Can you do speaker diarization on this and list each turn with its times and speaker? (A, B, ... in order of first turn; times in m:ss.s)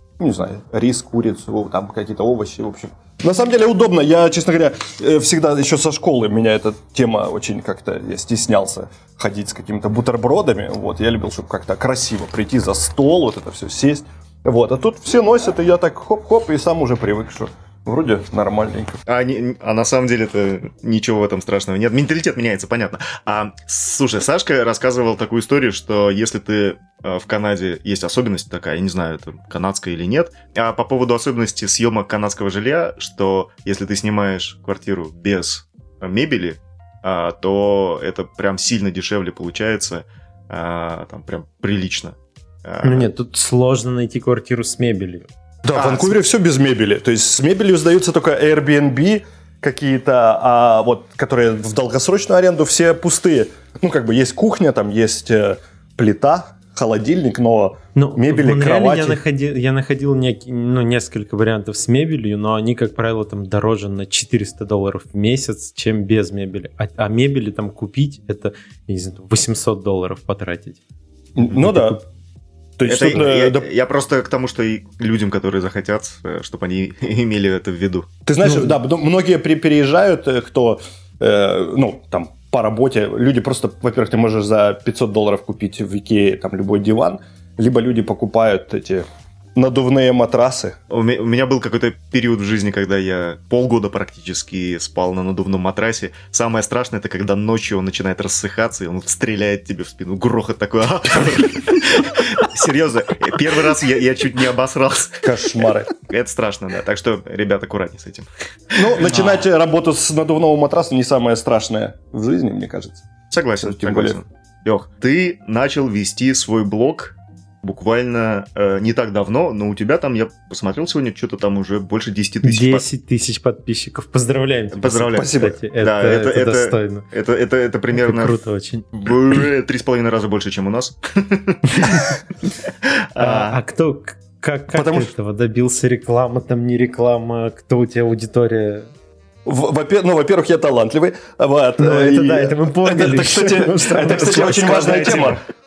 0:00.2-0:19.0 A
0:19.1-0:43.1 B
0:42.8-0:45.3 C
0:45.6-0:59.2 A
0:45.7-0:46.2 B
0:57.9-1:10.8 C
1:11.4-1:12.0 A
1:11.5-1:12.0 C
1:12.8-1:13.6 A
1:12.8-1:18.1 B
1:18.2-1:29.0 A
1:18.4-1:18.7 C
1:29.6-1:30.8 A
1:30.9-1:49.4 B
1:45.2-1:45.9 A
1:48.7-1:53.0 A
1:53.3-2:02.8 B
1:53.6-1:54.2 A
2:02.4-2:07.0 C
2:04.7-2:08.4 B
2:05.2-2:05.5 A
2:07.9-2:09.0 C
2:08.9-2:12.1 B
2:13.0-2:13.6 B
2:13.2-2:18.9 C
2:14.7-2:15.1 A
2:19.4-2:25.4 A
2:21.8-2:25.4 C
2:24.2-2:25.3 B